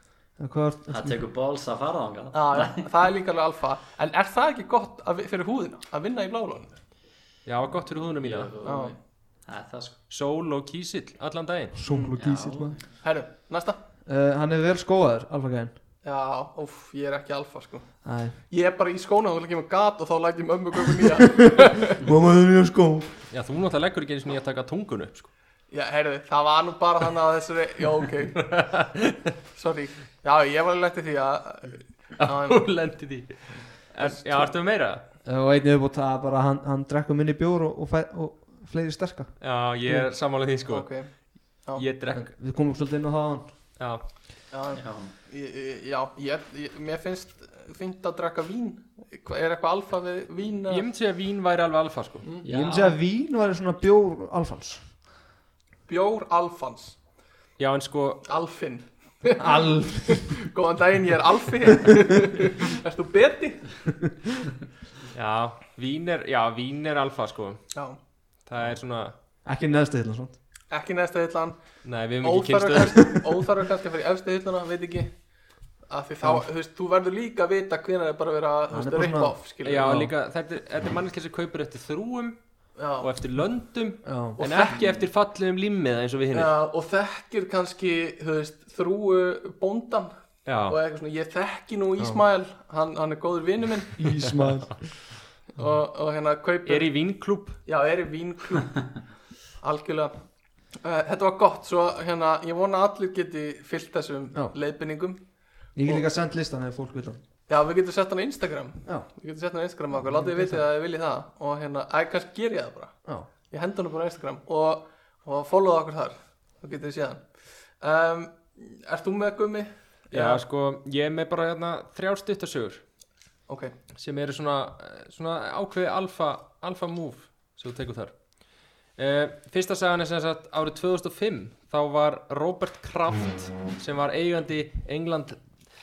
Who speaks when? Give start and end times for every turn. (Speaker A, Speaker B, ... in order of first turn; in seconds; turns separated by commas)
Speaker A: 0.4-1.2, Speaker B: 0.9-2.9, Speaker C: 2.3-6.8, Speaker D: 7.5-8.5, Speaker B: 8.2-10.0, Speaker C: 8.6-8.9, Speaker D: 10.1-11.8, Speaker A: 11.8-12.8, Speaker C: 11.9-12.2, Speaker B: 12.2-12.8, Speaker C: 13.0-13.8, Speaker A: 14.1-15.8, Speaker C: 16.0-22.0, Speaker A: 18.0-18.4, Speaker A: 21.6-23.2, Speaker D: 23.3-25.3, Speaker C: 25.7-28.5, Speaker D: 28.4-29.2, Speaker C: 29.5-32.6, Speaker D: 32.2-35.0, Speaker C: 34.0-34.5, Speaker A: 35.2-40.1, Speaker D: 39.4-42.3, Speaker C: 40.7-41.1, Speaker A: 42.1-43.5, Speaker D: 43.8-44.0, Speaker C: 44.5-50.9, Speaker B: 44.7-45.1, Speaker D: 50.7-52.3, Speaker B: 52.4-53.0, Speaker A: 52.5-54.9, Speaker C: 55.9-57.0, Speaker D: 57.6-58.2, Speaker C: 58.3-63.8, Speaker A: 59.4-60.5, Speaker D: 65.1-67.6, Speaker D: 68.5-69.1, Speaker A: 69.5-70.4, Speaker C: 70.7-71.6, Speaker D: 71.8-73.4, Speaker C: 72.2-75.1, Speaker C: 75.9-80.0, Speaker A: 78.7-80.1, Speaker D: 79.6-82.4, Speaker C: 82.8-83.1, Speaker D: 83.0-86.5, Speaker A: 84.0-84.4, Speaker C: 84.4-84.9, Speaker C: 86.3-90.1, Speaker D: 90.5-90.8, Speaker C: 90.7-94.2, Speaker A: 94.0-94.9, Speaker C: 95.6-96.9, Speaker D: 96.7-97.6, Speaker C: 97.7-99.1, Speaker C: 99.6-100.1, Speaker C: 100.8-105.2, Speaker A: 105.8-107.2, Speaker C: 107.5-112.9, Speaker A: 110.0-110.7, Speaker C: 113.5-120.4, Speaker D: 120.1-122.8, Speaker C: 123.5-123.7, Speaker D: 124.0-128.2, Speaker D: 129.0-135.4